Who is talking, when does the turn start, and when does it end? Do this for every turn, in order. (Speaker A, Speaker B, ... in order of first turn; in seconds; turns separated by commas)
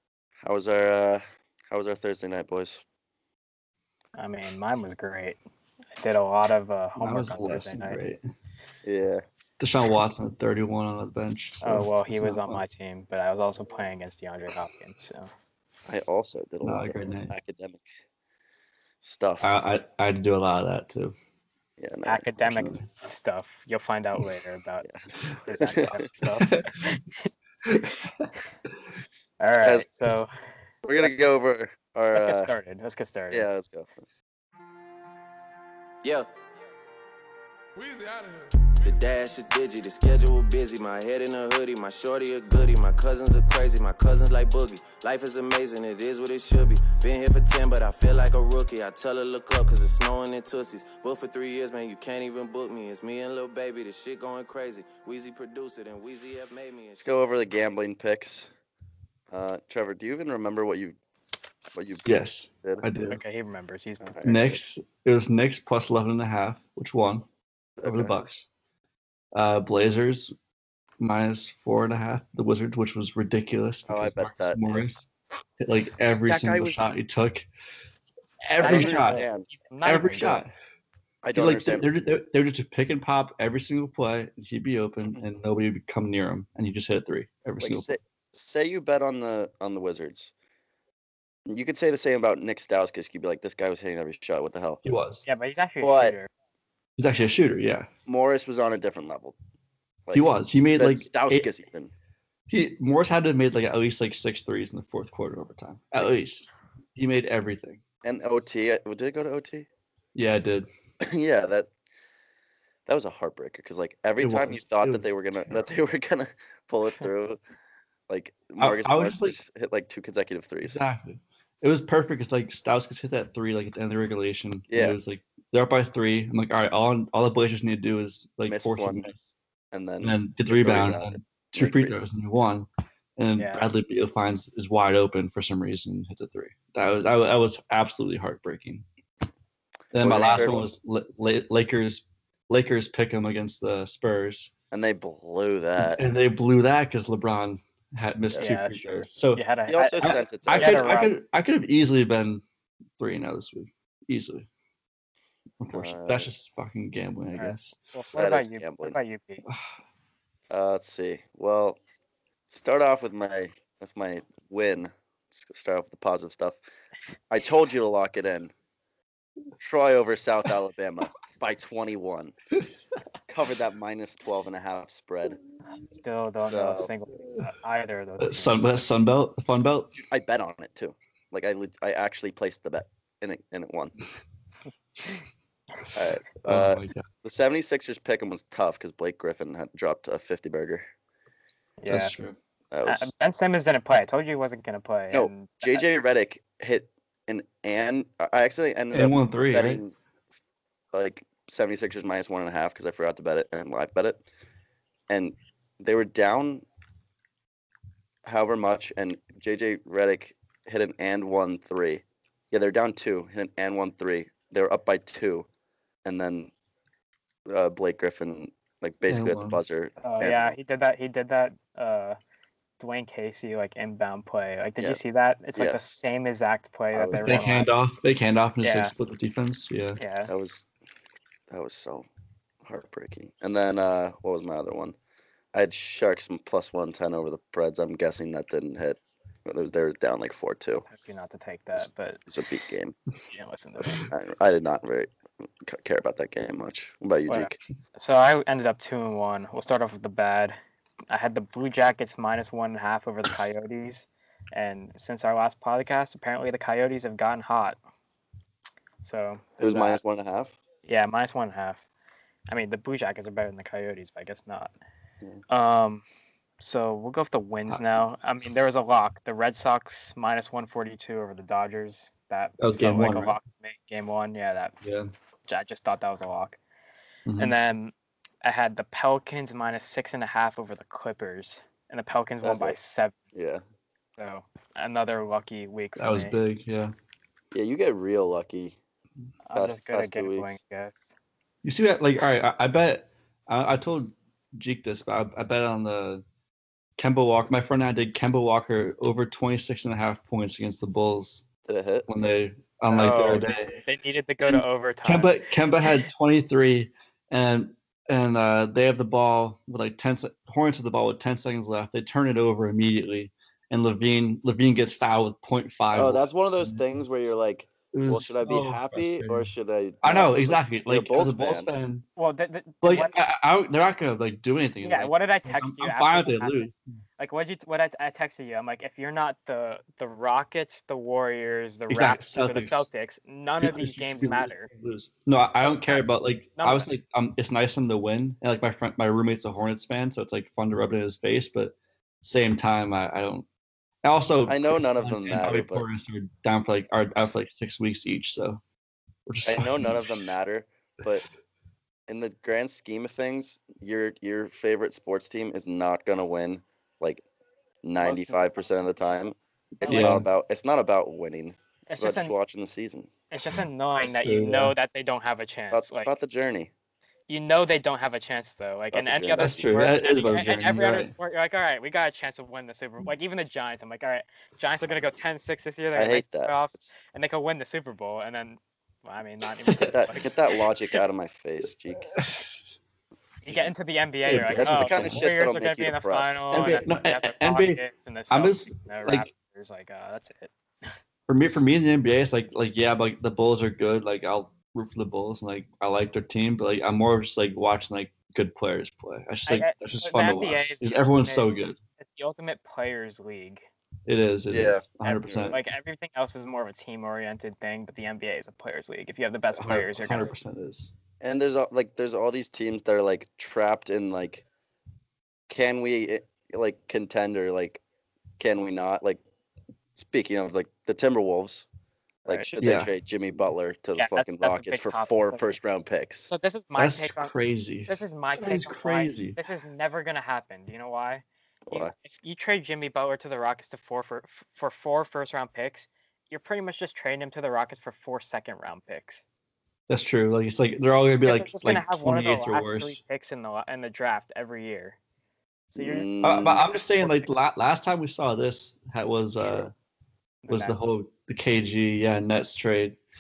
Speaker A: 0.4-2.8, Speaker B: 4.2-5.4, Speaker B: 6.0-8.0, Speaker C: 7.0-8.2, Speaker A: 8.8-9.2, Speaker C: 9.6-12.6, Speaker B: 11.6-15.3, Speaker A: 15.9-17.9, Speaker C: 16.6-17.3, Speaker A: 19.0-19.6, Speaker C: 19.4-21.1, Speaker A: 21.8-22.5, Speaker B: 22.1-24.9, Speaker C: 22.5-22.9, Speaker A: 24.8-26.0, Speaker B: 25.5-27.3, Speaker C: 26.4-26.9, Speaker C: 27.6-28.3, Speaker B: 29.4-30.3, Speaker A: 30.8-32.5, Speaker B: 32.1-33.5, Speaker A: 33.3-33.9, Speaker D: 37.8-57.1, Speaker A: 57.0-58.5, Speaker A: 59.3-61.0, Speaker A: 61.8-62.1, Speaker C: 62.0-63.2, Speaker B: 63.0-64.2, Speaker A: 64.0-64.6, Speaker C: 64.2-67.3, Speaker A: 67.8-68.1, Speaker C: 67.8-68.5, Speaker C: 69.3-70.3, Speaker C: 71.0-75.1, Speaker A: 73.9-75.0, Speaker C: 75.6-77.5, Speaker A: 76.1-76.8, Speaker C: 78.5-79.2, Speaker A: 78.6-79.5, Speaker B: 78.6-80.4, Speaker C: 79.8-80.5, Speaker A: 81.2-81.9, Speaker C: 81.3-87.9, Speaker A: 87.6-90.3, Speaker A: 91.5-94.8, Speaker C: 94.8-95.3, Speaker B: 95.3-96.3, Speaker A: 95.8-96.2, Speaker C: 97.0-97.9, Speaker A: 98.1-99.4, Speaker A: 100.1-101.9, Speaker C: 100.1-101.5, Speaker C: 102.5-107.8, Speaker A: 108.0-109.7, Speaker C: 110.2-110.7, Speaker A: 111.0-111.7, Speaker A: 112.9-117.4, Speaker C: 114.2-115.7, Speaker A: 118.1-120.8, Speaker C: 118.6-119.4, Speaker C: 120.7-129.2, Speaker A: 124.7-125.0, Speaker A: 128.5-129.1, Speaker A: 129.7-132.0, Speaker C: 130.0-138.8, Speaker B: 133.4-133.7, Speaker C: 139.9-144.5, Speaker A: 140.0-140.7, Speaker B: 140.1-140.6, Speaker A: 144.7-146.0, Speaker C: 145.8-149.4, Speaker B: 148.4-151.2, Speaker A: 149.7-151.0, Speaker C: 150.0-152.4, Speaker C: 153.0-154.5, Speaker C: 155.6-157.8, Speaker A: 155.7-156.3, Speaker B: 157.4-159.4, Speaker A: 158.1-159.0, Speaker A: 160.5-161.8, Speaker A: 162.5-166.6, Speaker A: 167.3-168.5, Speaker A: 169.6-172.3, Speaker A: 173.3-175.4, Speaker B: 175.9-178.9, Speaker A: 176.5-176.9, Speaker C: 178.2-180.0, Speaker A: 179.9-183.9, Speaker A: 185.9-190.9, Speaker C: 186.4-187.1, Speaker B: 191.8-192.2, Speaker C: 191.9-192.4, Speaker A: 192.7-193.1, Speaker B: 192.8-195.8, Speaker A: 195.1-199.9, Speaker C: 198.9-199.8, Speaker A: 200.9-204.2, Speaker A: 205.1-206.7, Speaker A: 208.2-215.5, Speaker A: 216.0-216.5, Speaker A: 217.5-220.6, Speaker C: 219.1-219.6, Speaker B: 220.0-222.2, Speaker B: 222.8-227.7, Speaker A: 226.9-227.6, Speaker C: 227.2-230.0, Speaker B: 228.6-228.9, Speaker B: 230.0-230.3, Speaker A: 230.3-230.7, Speaker A: 231.5-232.1, Speaker A: 232.6-235.0, Speaker A: 235.5-240.9, Speaker B: 240.9-242.2, Speaker A: 241.8-242.9, Speaker B: 243.3-244.1, Speaker A: 244.1-245.1, Speaker A: 245.6-247.6, Speaker B: 247.3-250.6, Speaker B: 251.1-257.8, Speaker B: 259.0-260.0, Speaker A: 259.6-260.6, Speaker B: 260.9-261.8, Speaker B: 262.5-264.7, Speaker B: 265.5-266.1, Speaker B: 266.6-274.8, Speaker C: 272.6-273.4, Speaker C: 274.8-275.1, Speaker B: 275.5-276.6, Speaker C: 277.3-277.6, Speaker B: 277.4-283.2, Speaker A: 282.4-282.8, Speaker A: 283.3-283.6, Speaker B: 284.2-286.4, Speaker C: 286.0-286.9, Speaker A: 287.5-288.8, Speaker B: 289.5-291.1, Speaker A: 289.5-290.6, Speaker C: 291.6-296.2, Speaker C: 297.0-301.5, Speaker A: 301.7-302.1, Speaker C: 302.1-303.8, Speaker B: 302.9-306.1, Speaker C: 304.5-316.8, Speaker A: 315.9-321.7, Speaker C: 317.9-319.5, Speaker C: 320.0-322.1, Speaker B: 322.2-323.2, Speaker C: 322.8-326.8, Speaker B: 324.8-334.7, Speaker C: 331.9-332.9, Speaker C: 333.6-343.5, Speaker B: 335.6-336.0, Speaker B: 336.6-336.9, Speaker C: 344.0-348.6, Speaker A: 344.5-345.8, Speaker C: 349.3-350.3, Speaker A: 349.4-351.2, Speaker A: 352.1-357.2, Speaker A: 357.8-363.1, Speaker B: 358.0-358.4, Speaker C: 359.8-360.2, Speaker B: 359.8-360.2, Speaker B: 361.9-362.4, Speaker B: 363.3-366.1, Speaker C: 364.0-364.7, Speaker A: 365.7-366.7, Speaker B: 367.3-380.3, Speaker A: 368.9-369.6, Speaker C: 369.4-371.1, Speaker A: 375.9-376.9, Speaker C: 379.6-379.9, Speaker A: 379.9-382.1, Speaker C: 382.2-382.5, Speaker B: 383.4-390.9, Speaker C: 384.3-385.2, Speaker A: 384.6-386.4, Speaker C: 386.5-389.3, Speaker C: 391.3-401.8, Speaker B: 399.5-403.6, Speaker C: 404.1-405.6, Speaker A: 404.5-405.6, Speaker B: 405.0-410.3, Speaker C: 409.6-410.9, Speaker A: 411.2-414.4, Speaker A: 415.5-417.8, Speaker A: 418.4-419.2, Speaker A: 420.0-421.7, Speaker A: 422.2-426.3, Speaker C: 422.6-422.9, Speaker B: 424.0-425.6, Speaker B: 426.3-427.3, Speaker C: 426.8-429.4, Speaker B: 427.9-439.2, Speaker A: 431.7-431.9, Speaker C: 439.9-443.0, Speaker B: 441.2-445.0, Speaker B: 445.7-446.1, Speaker A: 445.8-447.1, Speaker C: 446.2-449.7, Speaker B: 450.4-450.8, Speaker C: 450.5-453.0